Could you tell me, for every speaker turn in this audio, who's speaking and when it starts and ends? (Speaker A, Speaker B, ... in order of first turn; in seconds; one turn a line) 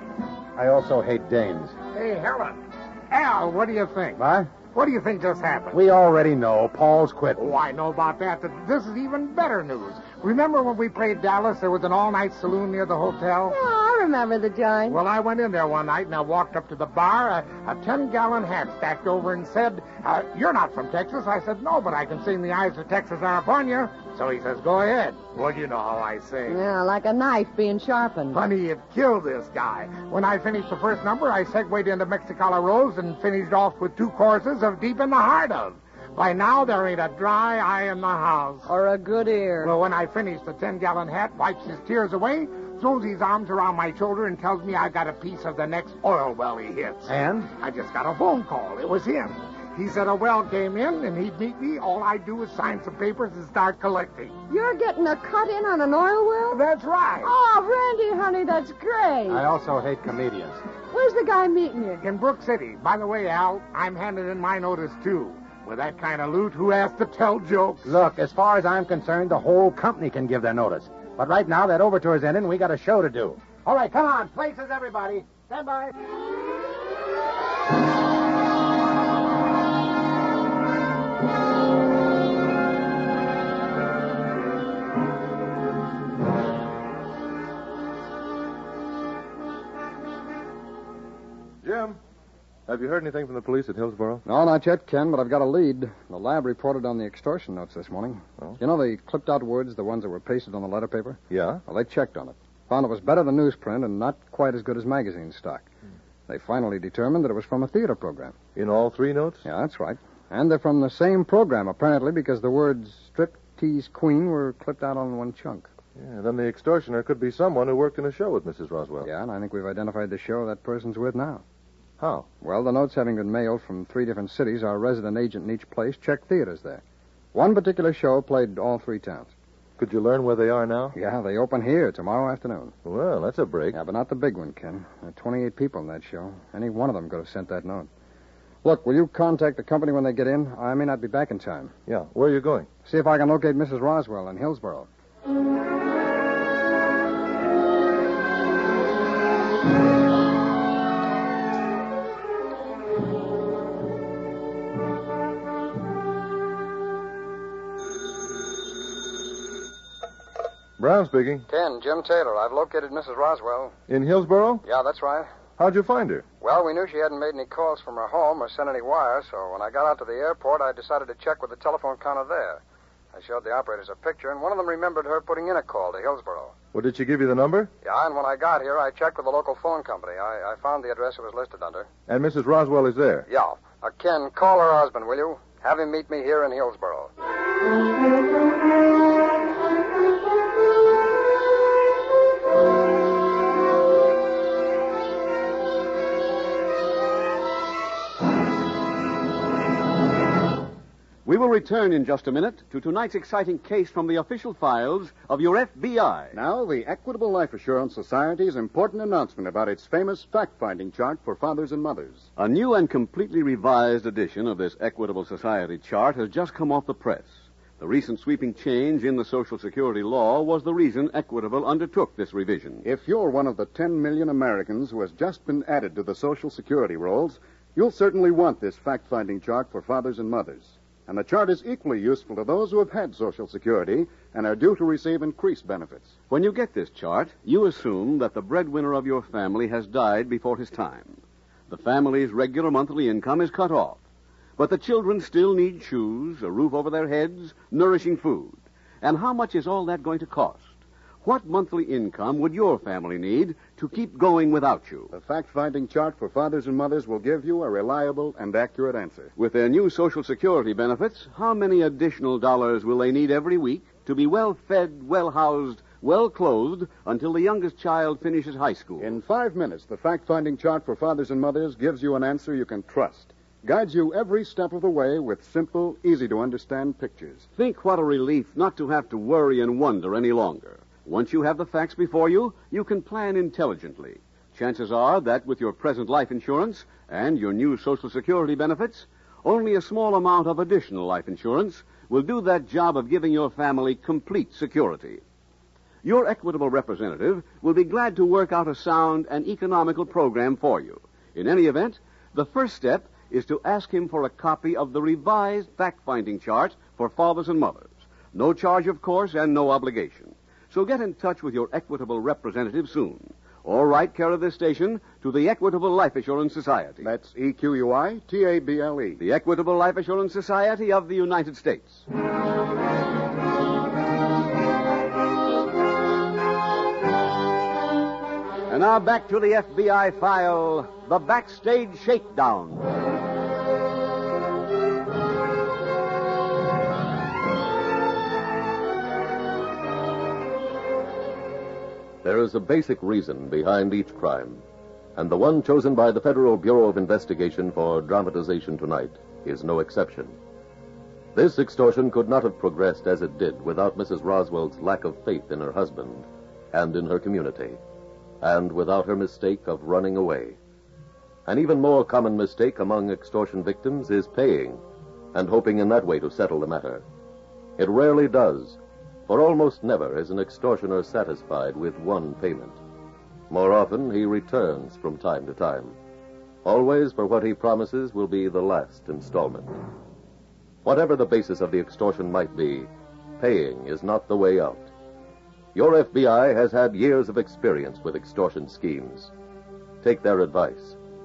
Speaker A: 0.6-1.8
Speaker B: 1.9-5.8
Speaker A: 4.2-4.5
Speaker A: 5.7-7.5
Speaker B: 7.4-13.6
Speaker C: 13.5-15.0
Speaker B: 14.9-26.6
Speaker C: 26.5-28.4
Speaker B: 28.3-38.7
Speaker C: 38.7-39.7
Speaker B: 39.6-54.4
Speaker A: 47.1-47.5
Speaker C: 54.5-56.6
Speaker B: 56.5-57.3
Speaker C: 57.2-59.4
Speaker A: 59.3-60.6
Speaker C: 60.9-62.0
Speaker B: 62.0-67.9
Speaker A: 67.8-75.9
Speaker D: 91.6-92.0
Speaker D: 92.7-94.2
Speaker E: 94.3-105.7
Speaker D: 101.3-101.6
Speaker E: 106.3-108.3
Speaker D: 108.5-109.5
Speaker E: 109.5-115.7
Speaker D: 116.0-119.1
Speaker E: 119.0-121.4
Speaker D: 122.0-122.3
Speaker E: 122.4-126.8
Speaker E: 127.3-129.3
Speaker D: 129.8-131.0
Speaker E: 130.9-132.8
Speaker D: 132.8-133.8
Speaker E: 133.7-137.9
Speaker E: 138.6-141.7
Speaker D: 141.9-142.7
Speaker E: 142.8-144.9
Speaker D: 160.8-161.5
Speaker E: 161.5-163.8
Speaker D: 163.9-164.6
Speaker E: 164.6-165.3
Speaker D: 165.6-166.2
Speaker E: 166.4-172.6
Speaker E: 173.1-176.6
Speaker D: 176.7-177.7
Speaker E: 177.8-181.9
Speaker D: 182.1-183.3
Speaker E: 183.3-187.1
Speaker F: 201.2-206.4
Speaker G: 206.3-212.3
Speaker F: 212.4-222.9
Speaker G: 222.8-236.2
Speaker F: 236.3-244.0
Speaker F: 244.6-255.1
Speaker G: 255.1-259.3
Speaker F: 259.4-269.2
Speaker G: 269.0-277.5
Speaker F: 277.6-295.2
Speaker F: 296.0-317.1
Speaker G: 317.0-319.2
Speaker F: 319.2-322.0
Speaker F: 328.7-332.9
Speaker H: 342.2-344.6
Speaker H: 345.2-350.4
Speaker H: 351.4-357.8
Speaker H: 358.4-360.6
Speaker H: 361.5-364.8
Speaker H: 365.3-367.0
Speaker H: 367.8-372.8
Speaker H: 373.5-376.0
Speaker H: 376.6-379.8
Speaker H: 380.8-384.9
Speaker H: 385.8-389.3
Speaker H: 390.0-391.0